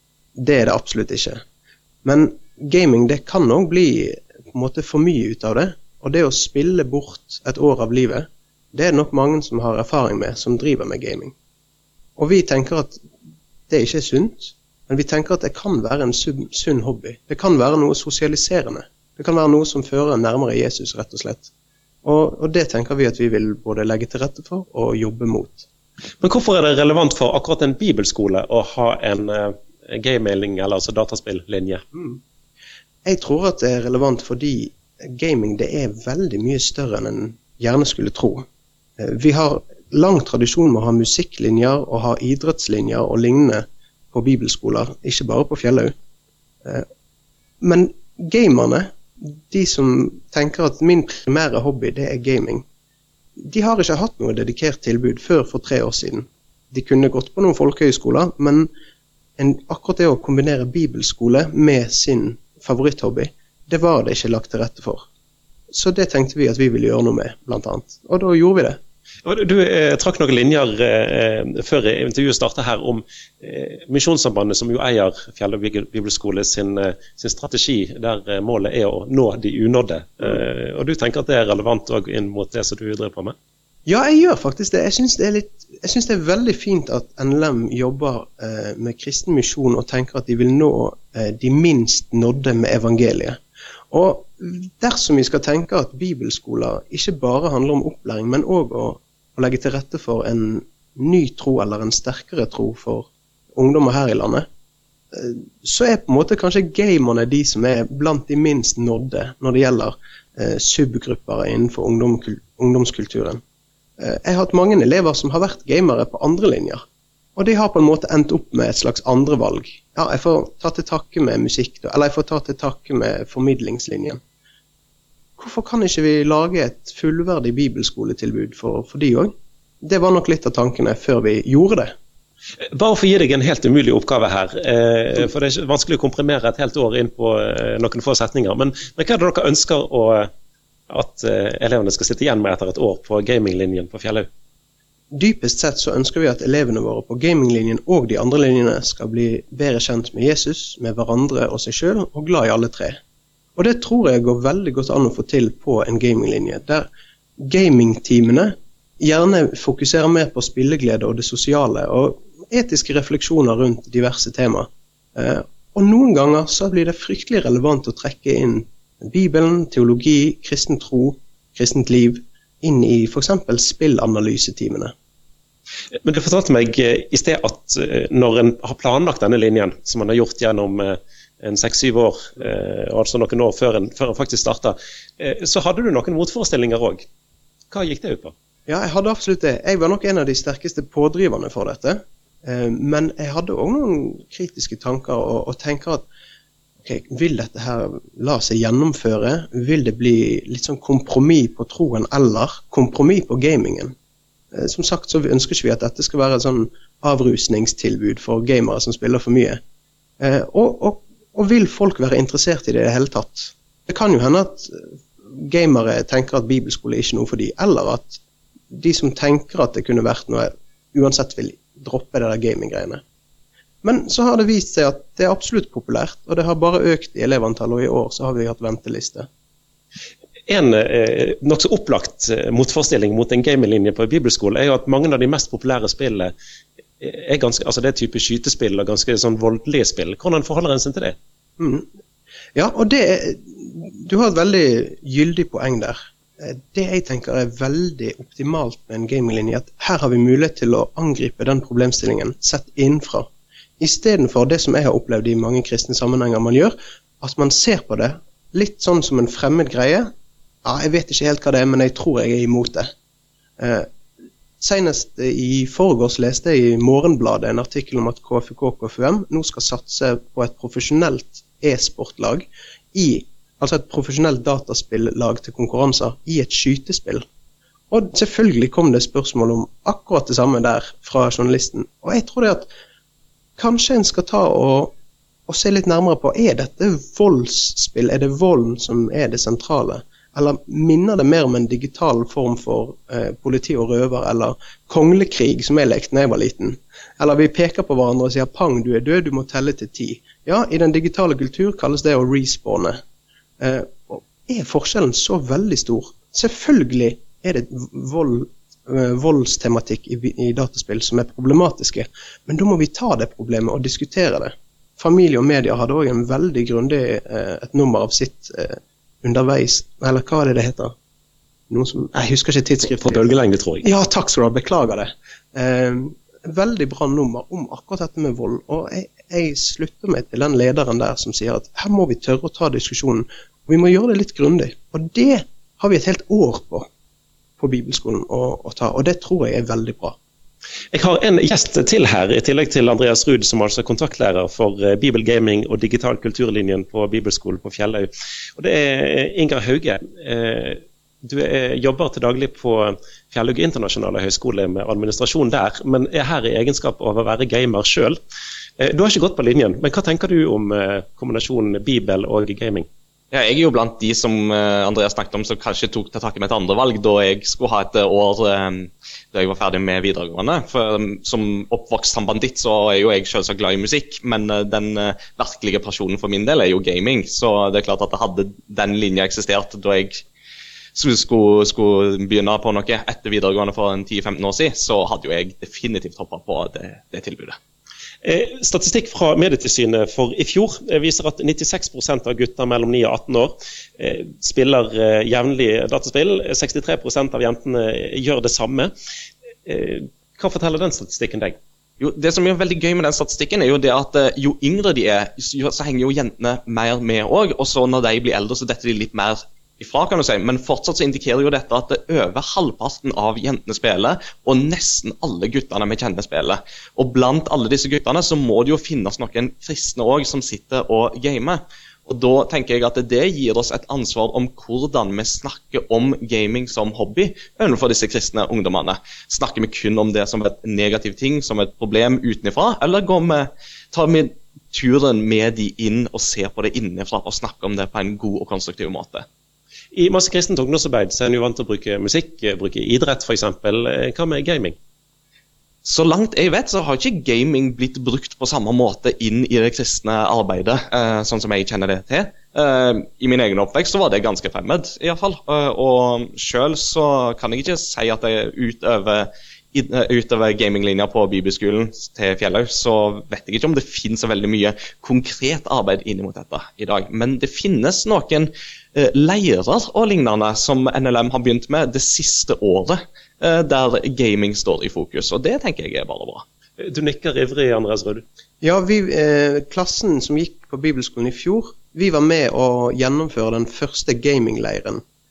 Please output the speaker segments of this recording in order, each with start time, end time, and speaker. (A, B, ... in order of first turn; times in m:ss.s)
0:00.4-0:01.4 A
0:02.0-0:11.3 A
0:12.2-0:13.0 A
0:13.7-0:21.5 A
0:22.0-0:25.7 A
0:26.2-0:31.8 B
0:31.9-0:32.2 A
0:33.0-0:38.4 A
0:39.0-0:45.9 A
0:47.6-0:52.6 A
0:53.4-0:58.7 A
0:59.4-1:05.0 A
1:05.7-1:08.8 A
1:09.2-1:23.3 B
1:23.8-1:33.4 A
1:33.9-1:44.4 A
1:45.1-1:53.4 A
1:54.0-1:56.8 A
1:57.4-2:04.2 A
2:05.4-2:11.9 A
2:12.7-2:20.3 B
2:20.9-2:24.3 B
2:25.1-2:33.0 A
2:33.6-2:36.9 A
2:37.4-2:54.9 A
2:56.0-3:07.1 B
3:07.7-3:08.3 B
3:08.7-3:16.0 A
3:16.8-3:23.9 A
3:24.5-3:29.6 A
3:30.2-3:43.0 A
3:43.8-3:49.3 A
3:50.5-3:56.3 B
3:57.0-4:01.2 B
4:01.6-4:01.8 A
4:02.5-4:13.3 A
4:13.8-4:20.1 A
4:20.6-4:22.9 A
4:23.6-4:23.9 A
4:24.6-4:37.2 A
4:37.9-4:42.7 A
4:43.6-4:44.9 A
4:45.5-5:03.0 A
5:03.6-5:20.9 A
5:21.7-5:23.2 A
5:23.0-5:23.8 B
5:23.8-5:36.9 A
5:37.6-5:40.2 A
5:40.9-5:58.2 B
5:58.8-6:02.9 B
6:03.3-6:20.2 C
6:20.9-6:27.6 C
6:28.2-6:38.9 B
6:39.6-6:41.6 B
6:42.0-7:19.2 C
7:19.9-7:24.8 B
7:25.8-7:56.4 C
7:56.8-7:58.2 B
7:58.6-8:05.0 A